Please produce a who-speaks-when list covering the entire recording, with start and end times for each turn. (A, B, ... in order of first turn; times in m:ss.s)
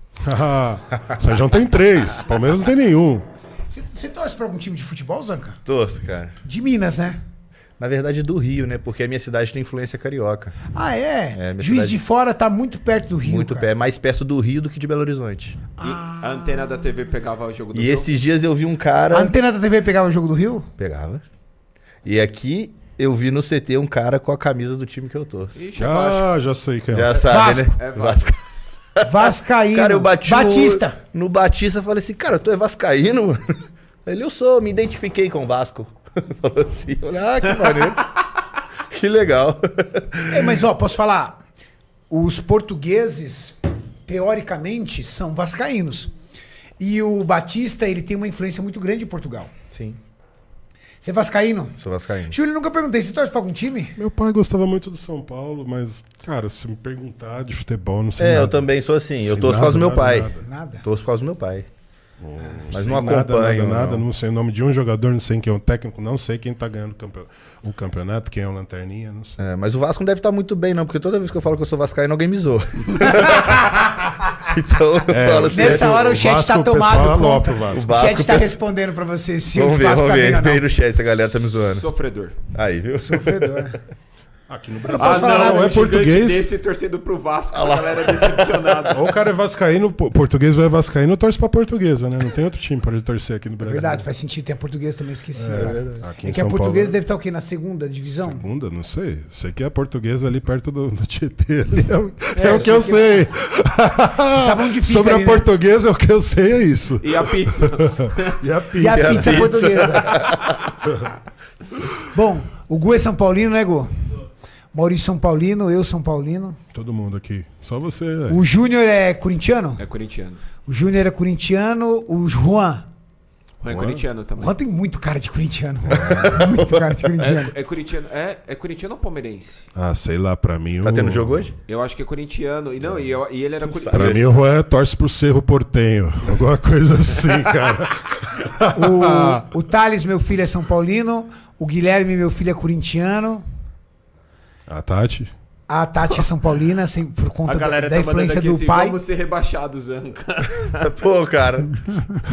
0:00.3-0:03.2 A
0:03.7-0:05.6 B
0:05.6-0:06.3 C
0:06.4-0:07.2 B
0:07.8-0:10.6 C
0:10.7-0:13.7 B
0:11.3-0:12.0 C
0:13.2-0:15.6 C
0:15.8-0:16.7 B
0:15.8-0:18.1 D
0:17.7-0:19.3 C
0:19.1-0:20.7 B
0:20.8-0:21.2 C
0:22.0-0:25.5 C
0:25.5-0:26.3 D
0:25.8-0:27.1 A
0:26.9-0:28.4 C
0:27.1-0:28.3 D
0:27.1-0:27.8 B
0:29.0-0:33.4 C
0:29.0-0:31.0 B
0:34.0-0:38.0 C
0:38.9-0:40.6 C
0:40.3-0:41.4 B
0:42.1-0:46.1 B
0:46.8-0:49.5 B
0:49.7-0:50.0 C
0:51.0-0:54.0 B
0:51.8-0:52.3 C
0:54.0-0:58.6 A
0:58.2-1:01.7 C
0:59.2-1:00.4 A
1:00.3-1:00.8 B
1:02.2-1:09.3 A
1:02.7-1:04.0 C
1:09.4-1:13.9 C
1:13.1-1:13.6 B
1:14.5-1:16.0 C
1:15.1-1:17.8 A
1:15.4-1:20.6 B
1:17.7-1:18.6 C
1:19.5-1:21.8 C
1:21.7-1:22.3 D
1:22.5-1:23.6 C
1:23.0-1:23.8 B
1:24.5-1:26.4 A
1:24.8-1:25.9 B
1:25.0-1:29.0 D
1:27.5-1:28.5 C
1:28.9-1:34.0 A
1:33.6-1:38.4 B
1:35.3-1:37.0 A
1:35.5-1:36.0 C
1:38.0-1:49.4 A
1:42.3-1:43.2 B
1:44.3-1:45.5 B
1:47.0-1:48.4 D
1:48.7-1:50.1 B
1:48.9-1:50.5 C
1:49.0-1:50.3 D
1:52.1-1:56.6 B
1:56.7-1:58.4 A
1:58.3-1:59.8 B
1:59.8-2:00.4 D
2:00.6-2:02.8 B
2:03.6-2:04.6 D
2:03.7-2:04.0 A
2:04.4-2:07.5 B
2:05.9-2:07.3 C
2:07.2-2:09.6 D
2:09.7-2:11.3 A
2:10.8-2:11.5 C
2:11.6-2:14.2 D
2:13.6-2:14.2 C
2:13.9-2:18.8 A
2:17.2-2:17.4 D
2:18.7-2:23.4 B
2:24.7-2:25.3 A
2:25.7-2:29.0 B
2:27.4-2:30.8 D
2:30.8-2:32.0 C